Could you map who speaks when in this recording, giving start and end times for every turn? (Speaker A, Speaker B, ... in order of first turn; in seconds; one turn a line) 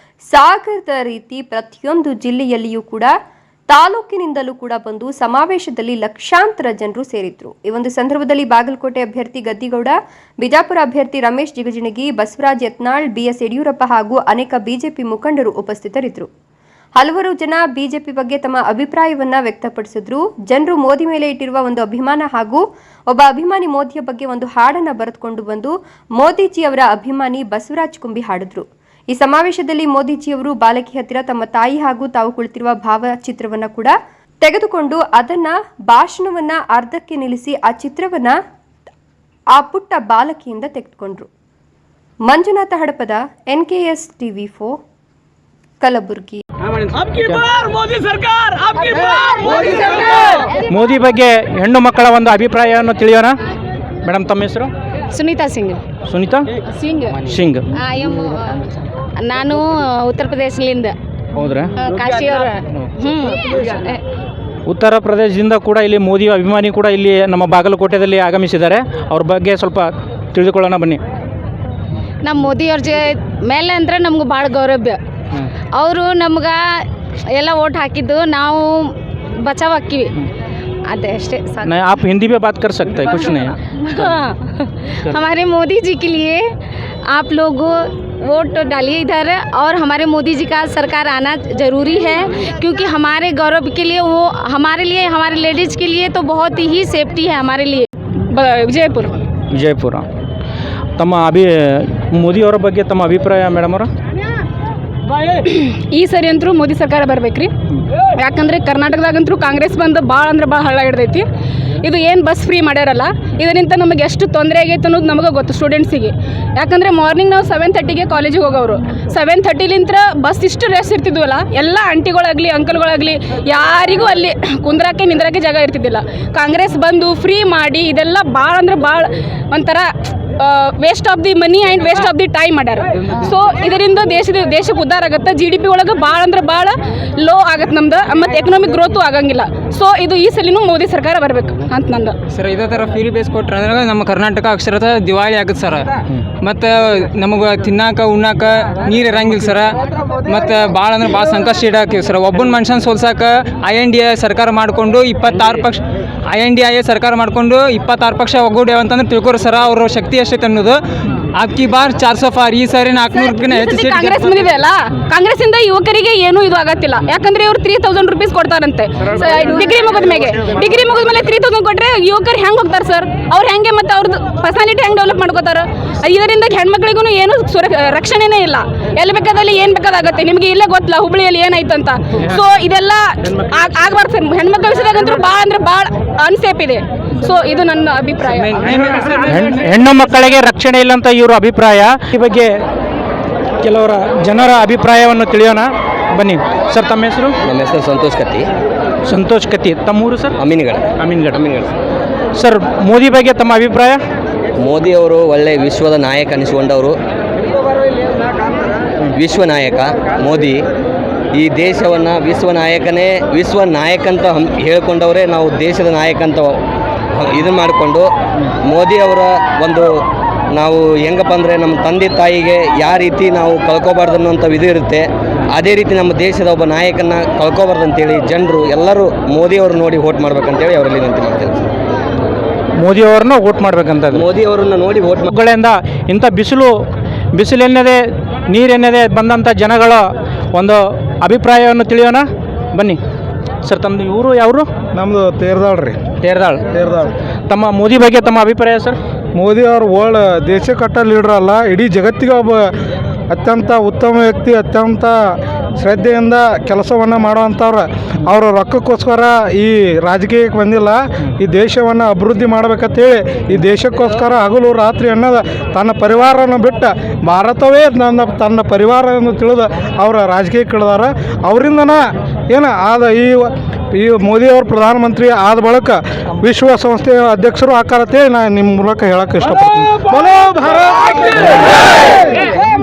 Speaker A: 0.3-3.1
Speaker A: 3.7-16.3
Speaker A: 17.0-38.4
Speaker A: 39.5-41.3
Speaker A: 42.3-44.8
Speaker A: 45.8-46.4
Speaker B: 50.7-53.4
Speaker B: 54.0-54.7
Speaker C: 55.1-55.8
Speaker B: 56.1-56.5
Speaker C: 56.9-57.2
Speaker B: 57.2-57.6
Speaker C: 57.8-58.6
Speaker C: 59.2-61.0
Speaker B: 61.4-61.7
Speaker C: 61.8-64.0
Speaker B: 64.7-71.0
Speaker C: 72.2-75.0
Speaker C: 75.8-78.8
Speaker C: 79.4-80.1
Speaker C: 80.9-81.7
Speaker B: 81.6-84.1
Speaker C: 84.0-86.5
Speaker C: 87.1-97.9
Speaker D: 98.3-99.2
Speaker B: 99.5-100.0
Speaker B: 101.0-103.9
Speaker D: 105.5-107.5
Speaker D: 108.2-111.2
Speaker D: 111.8-142.2
Speaker E: 142.3-145.9
Speaker E: 146.4-160.8
Speaker E: 161.3-164.5
Speaker D: 163.1-188.7
Speaker E: 188.4-189.4
Speaker B: 189.2-192.6
Speaker B: 193.6-197.3
Speaker F: 197.4-198.5
Speaker B: 199.1-200.3
Speaker F: 200.4-201.7
Speaker B: 201.0-201.4
Speaker B: 202.4-204.0
Speaker F: 204.6-206.9
Speaker F: 209.2-210.6
Speaker F: 211.3-216.6
Speaker F: 217.2-218.1
Speaker F: 218.7-219.9
Speaker F: 220.5-231.6
Speaker B: 232.8-234.3
Speaker F: 234.1-235.3
Speaker B: 235.3-236.8
Speaker B: 237.3-243.0
Speaker B: 243.7-244.7
Speaker G: 244.9-246.0
Speaker B: 246.2-246.6
Speaker G: 246.7-247.1
Speaker B: 247.5-249.0
Speaker G: 249.3-252.7
Speaker G: 253.3-282.2